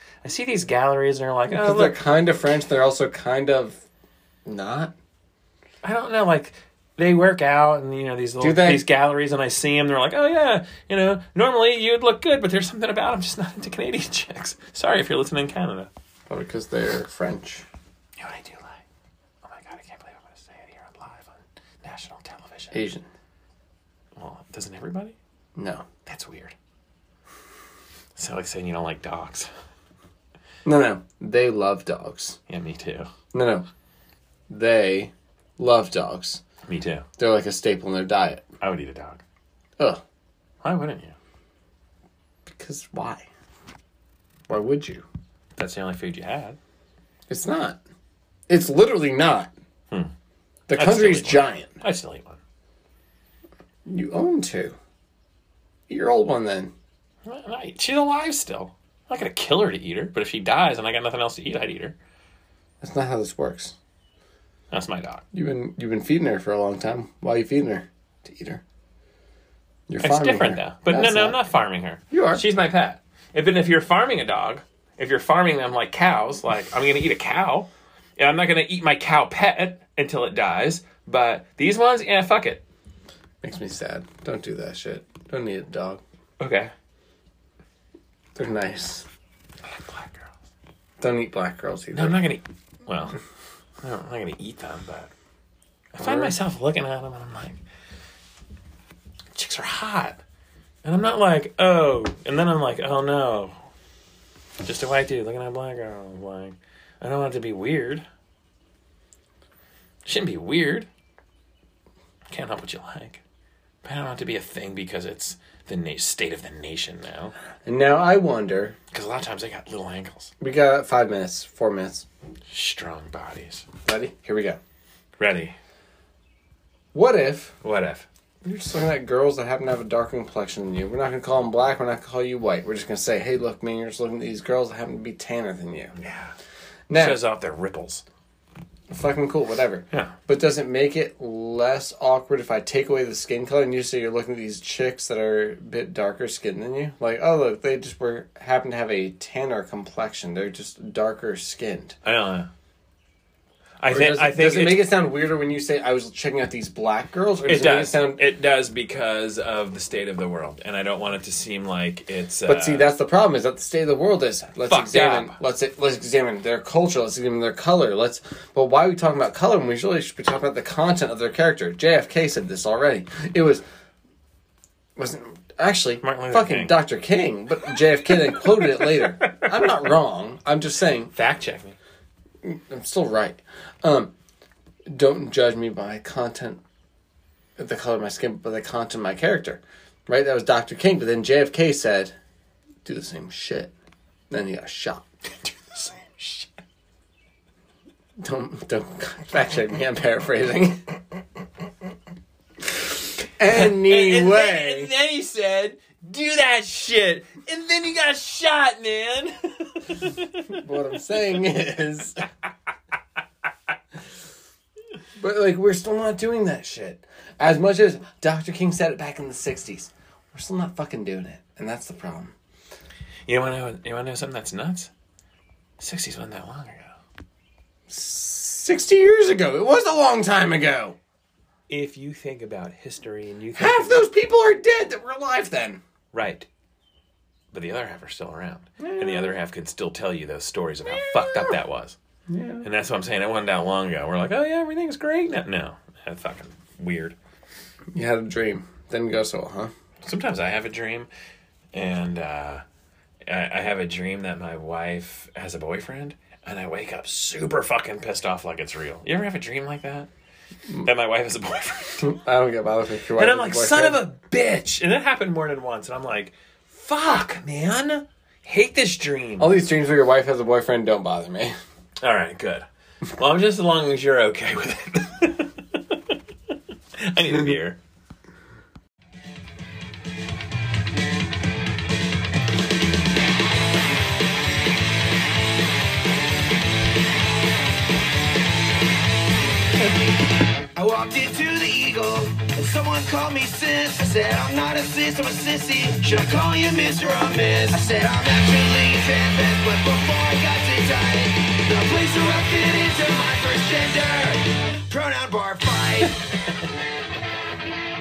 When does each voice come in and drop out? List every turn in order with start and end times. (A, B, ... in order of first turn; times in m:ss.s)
0:00.2-0:02.0 A
0:01.5-0:03.8 B
0:04.4-0:04.9 B
0:05.8-0:15.9 A
0:08.4-0:08.8 B
0:16.3-0:17.6 B
0:18.2-0:18.8 A
0:19.4-0:22.8 A
0:22.7-0:23.0 B
0:24.2-0:25.2 A
0:25.6-0:25.8 B
0:26.0-0:26.5 A
0:28.1-0:29.5 A
0:30.6-0:32.4 B
0:32.5-0:33.1 A
0:33.3-0:33.6 B
0:34.5-0:36.4 B
0:36.6-0:37.0 A
0:37.2-0:38.4 B
0:38.6-0:39.2 A
0:40.6-0:41.1 A
0:42.5-0:43.3 B
0:44.5-0:45.0 B
0:45.6-0:46.6 A
0:47.3-0:47.8 B
0:48.5-0:49.5 B
0:50.7-0:51.8 B
0:50.7-0:52.4 A
0:53.8-0:54.8 B
0:55.9-0:56.7 B
0:57.2-1:02.0 A
1:02.8-1:03.7 B
1:04.7-1:05.2 A
1:05.3-1:08.6 B
1:09.9-1:11.4 B
1:10.0-1:22.6 A
1:12.1-1:12.4 B
1:23.4-1:26.0 B
1:26.4-1:26.7 A
1:28.4-1:29.0 B
1:29.6-1:30.3 A
1:31.0-1:32.2 B
1:31.9-1:33.2 A
1:33.8-1:35.1 A
1:36.0-1:37.6 A
1:36.0-1:36.3 B
1:39.3-1:40.2 A
1:40.8-1:43.6 A
1:44.6-1:48.0 A
1:50.0-1:50.9 A
1:52.3-1:53.2 A
1:53.8-1:57.3 A
1:57.6-1:58.8 B
1:58.9-2:00.3 A
2:00.4-2:02.1 B
2:02.5-2:03.6 A
2:03.8-2:04.6 B
2:05.2-2:05.6 A
2:06.9-2:07.6 B
2:07.6-2:08.0 A
2:08.4-2:15.9 B
2:16.0-2:16.3 A
2:16.9-2:17.2 B
2:16.9-2:18.0 A
2:18.9-2:32.0 B
2:32.0-2:32.5 A
2:33.8-2:34.8 A
2:33.9-2:38.2 B
2:37.4-2:42.9 A
2:42.5-2:53.6 B
2:44.7-2:45.3 A
2:55.0-3:01.1 B
2:56.0-2:56.8 A
2:58.8-2:59.5 A
3:01.1-3:01.8 A
3:02.4-3:04.1 B
3:04.9-3:06.6 B
3:07.6-3:12.1 B
3:12.8-3:13.7 B
3:14.3-3:15.1 B
3:15.5-3:16.5 A
3:18.2-3:20.8 B
3:23.4-3:24.9 B
3:23.5-3:30.6 A
3:30.5-3:32.2 B
3:35.2-3:42.3 B
3:43.3-3:44.9 A
3:45.8-3:46.9 A
3:47.9-3:51.0 B
3:51.7-3:54.0 A
3:53.5-3:55.8 B
3:56.1-3:56.5 A
3:57.5-4:02.0 A
3:58.8-3:59.4 B
4:00.9-4:01.6 B
4:02.3-4:02.6 B
4:02.6-4:07.2 A
4:07.9-4:09.7 B
4:10.0-4:11.1 A
4:11.7-4:12.6 A
4:13.3-4:20.1 A
4:20.8-4:22.1 A
4:22.0-4:24.0 B
4:23.2-4:29.5 A
4:29.4-4:31.5 B
4:32.0-4:36.1 A
4:37.0-4:37.8 A
4:49.8-4:50.2 C
4:50.7-5:06.2 C